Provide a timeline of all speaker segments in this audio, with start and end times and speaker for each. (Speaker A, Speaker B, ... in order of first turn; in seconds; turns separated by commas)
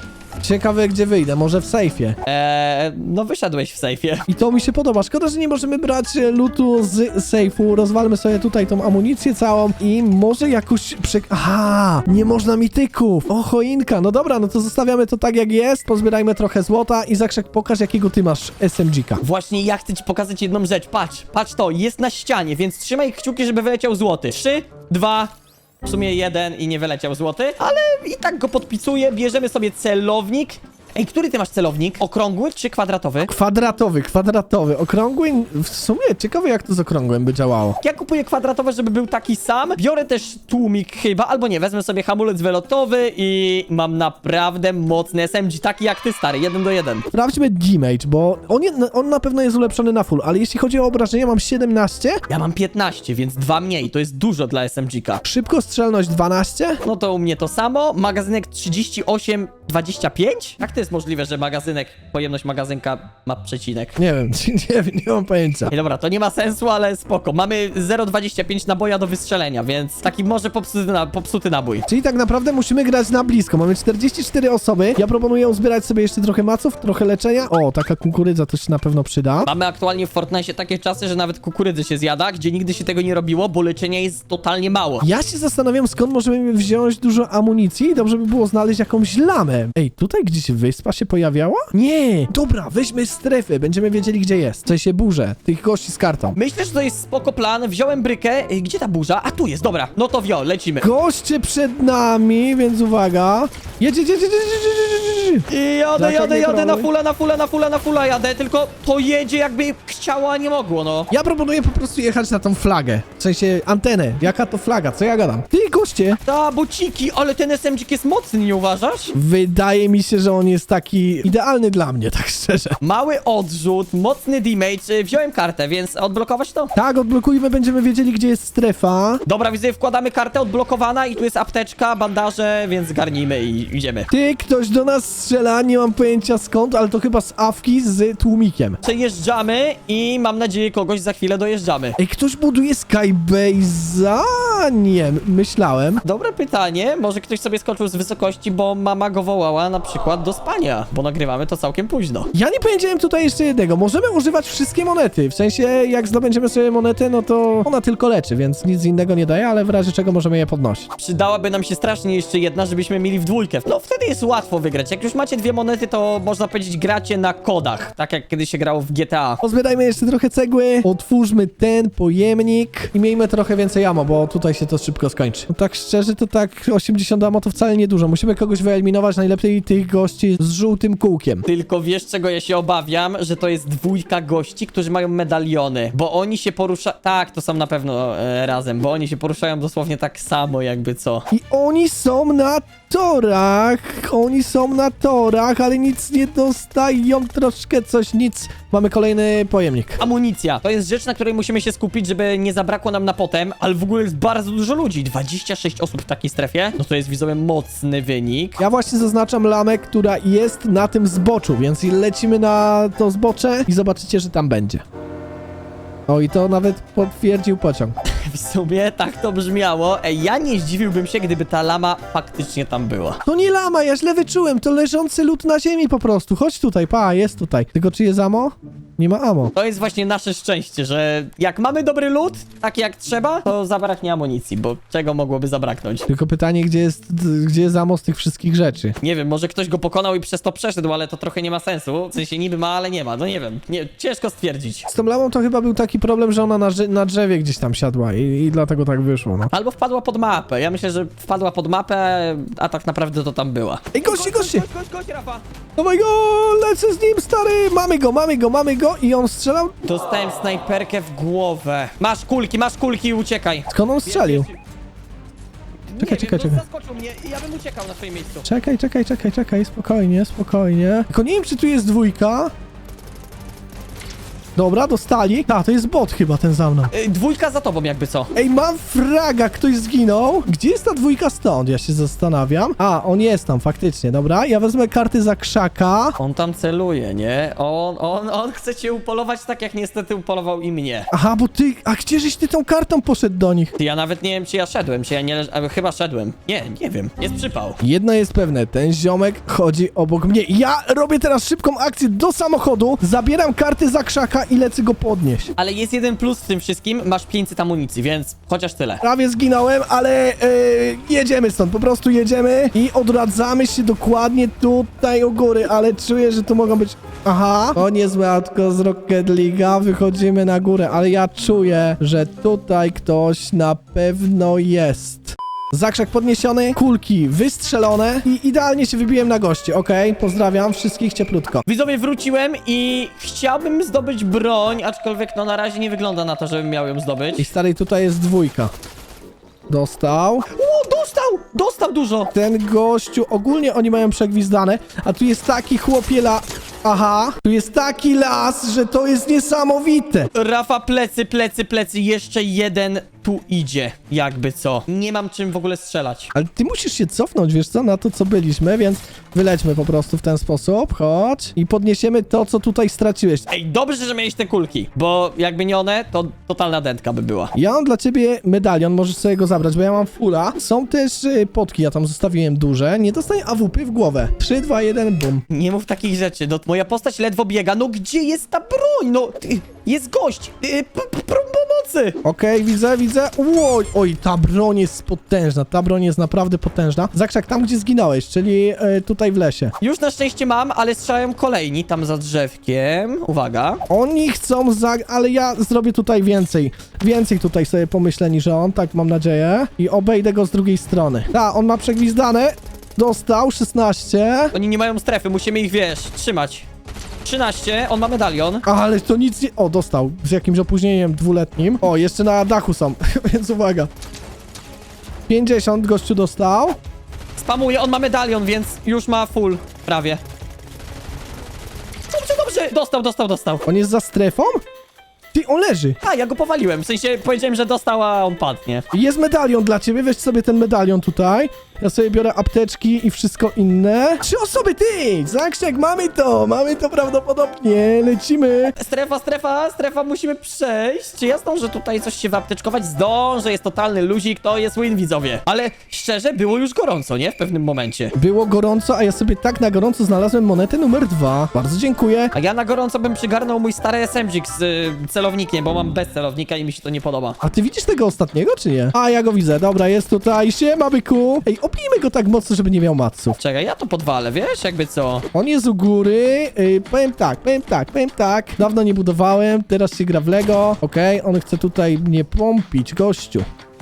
Speaker A: 0.4-2.2, Speaker B: 2.2-4.3, Speaker A: 4.3-19.2, Speaker B: 19.2-25.3, Speaker B: 25.8-33.3, Speaker A: 33.3-37.8, Speaker B: 37.8-47.1, Speaker A: 47.1-52.2, Speaker B: 52.3-55.2, Speaker A: 55.2-56.8, Speaker B: 56.8-64.0, Speaker A: 64.0-65.7, Speaker B: 65.7-71.8, Speaker A: 71.9-79.5, Speaker B: 79.4-85.1, Speaker A: 85.0-96.4, Speaker B: 96.3-100.9, Speaker A: 100.8-105.5, Speaker B: 105.5-111.1, Speaker A: 106.0-106.9, Speaker A: 111.1-116.2, Speaker B: 116.3-119.1, Speaker A: 119.1-122.8, Speaker B: 122.8-126.7, Speaker A: 126.8-129.2, Speaker B: 129.3-134.1, Speaker A: 134.1-138.8, Speaker B: 138.8-142.0, Speaker A: 142.0-146.0, Speaker B: 146.0-152.3, Speaker A: 152.3-160.9, Speaker B: 161.0-169.4, Speaker A: 169.4-181.5, Speaker B: 181.5-191.3, Speaker A: 191.3-200.0, Speaker B: 200.0-208.6, Speaker A: 208.6-214.8, Speaker A: 216.1-218.0, Speaker B: 218.1-223.2, Speaker A: 223.2-229.5, Speaker B: 229.6-236.1, Speaker A: 236.1-239.0, Speaker B: 239.0-244.9, Speaker A: 244.9-249.5, Speaker B: 249.5-255.4, Speaker A: 253.9-254.7, Speaker A: 255.8-259.8, Speaker B: 259.8-264.6, Speaker A: 263.7-264.5, Speaker B: 265.9-268.5, Speaker A: 266.0-266.6, Speaker A: 268.4-272.5, Speaker A: 274.6-276.9, Speaker B: 276.9-278.3, Speaker A: 278.4-286.2, Speaker B: 286.2-291.1, Speaker A: 291.1-293.8, Speaker B: 293.8-297.8, Speaker A: 297.8-305.5, Speaker B: 305.6-309.0, Speaker A: 309.0-331.6, Speaker B: 331.7-337.5, Speaker A: 337.4-338.7, Speaker A: 339.7-340.5, Speaker B: 340.5-342.3, Speaker A: 342.3-350.3, Speaker B: 350.4-356.3, Speaker A: 356.3-363.5, Speaker B: 363.5-367.5, Speaker A: 367.6-375.4, Speaker B: 375.5-382.2, Speaker A: 382.2-389.7, Speaker B: 389.8-393.8, Speaker A: 393.9-404.5, Speaker B: 404.5-406.6, Speaker B: 407.2-408.6, Speaker A: 408.6-413.9, Speaker A: 415.3-416.8, Speaker B: 417.4-420.2, Speaker B: 422.1-423.6, Speaker A: 423.6-424.6, Speaker A: 425.3-426.0, Speaker B: 426.0-428.9, Speaker A: 428.9-438.7, Speaker B: 438.8-448.1, Speaker A: 448.1-452.3, Speaker B: 452.4-457.4, Speaker A: 457.4-463.4, Speaker B: 463.4-465.3, Speaker A: 465.3-473.5